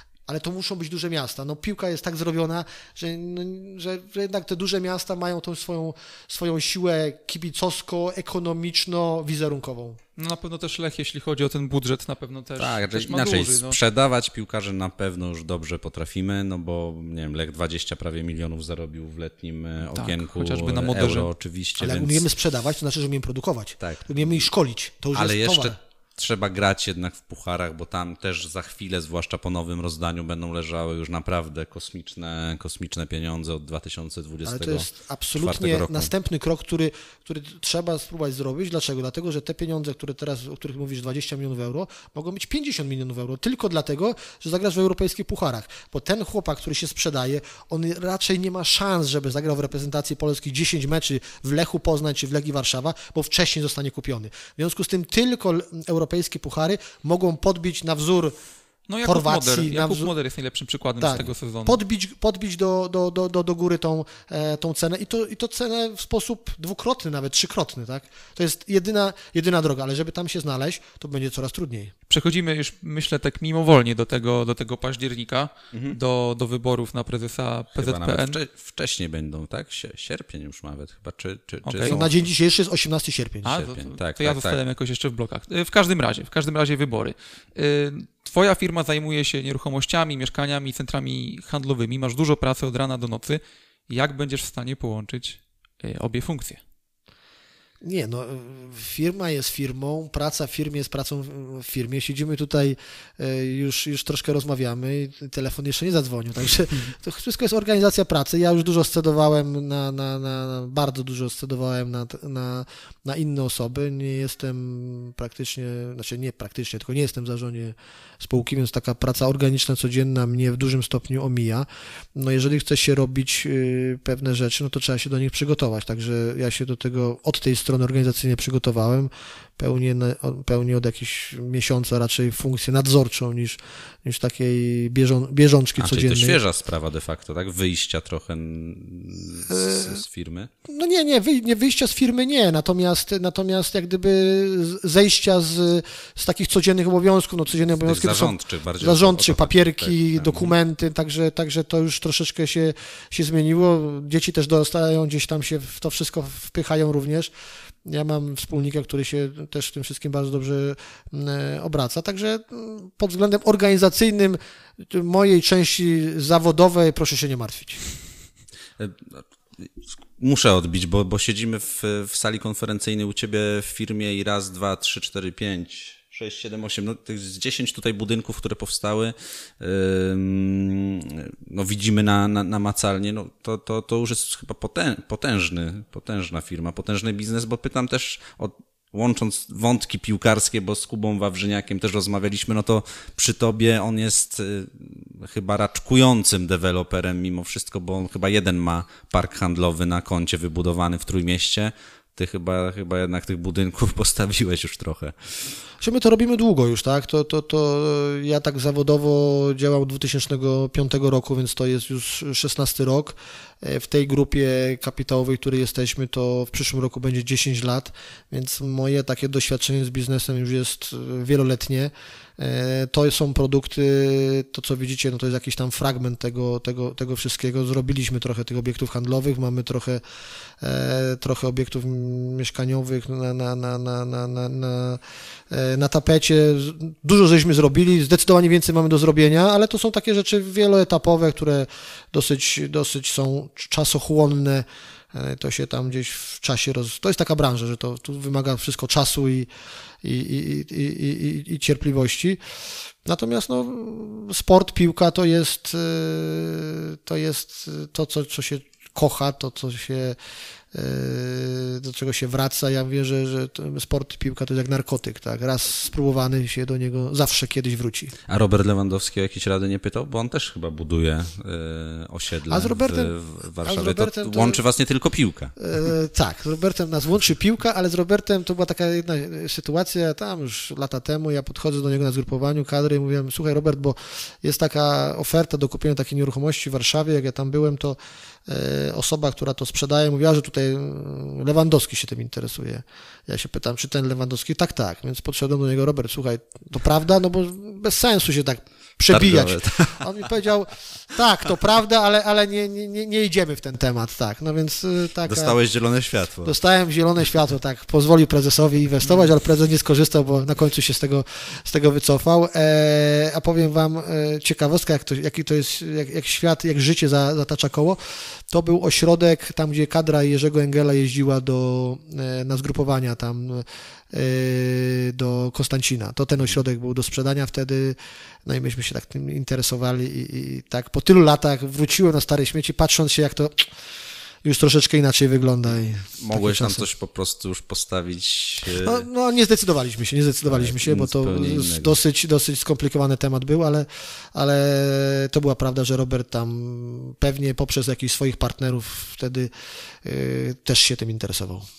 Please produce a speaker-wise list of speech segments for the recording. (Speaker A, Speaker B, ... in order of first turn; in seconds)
Speaker A: 0.3-10.0, 21.8-25.8, 34.4-58.4, 59.0-60.1, 61.0-71.9, 81.8-83.5, 97.8-136.4, 139.5-140.0, 140.7-157.3, 157.8-167.8, 205.8-230.0, 230.6-249.5, 250.0-252.4, 253.1-260.2, 260.7-268.1, 272.5-274.6, 275.6-305.6, 306.4-333.7, 334.4-336.8, 338.8-349.5, 350.0-351.6
Speaker B: 10.2-13.8, 19.9-21.3, 58.9-61.8, 72.1-78.3, 81.6-82.0, 83.4-96.6
Speaker C: 12.6-22.3, 23.8-24.4, 25.1-36.1, 75.7-76.0, 77.8-82.2, 83.5-84.6, 135.8-140.5, 147.7-150.6, 168.8-205.1, 268.3-275.5, 299.1-300.1, 305.2-306.5, 336.2-339.0, 340.5-342.0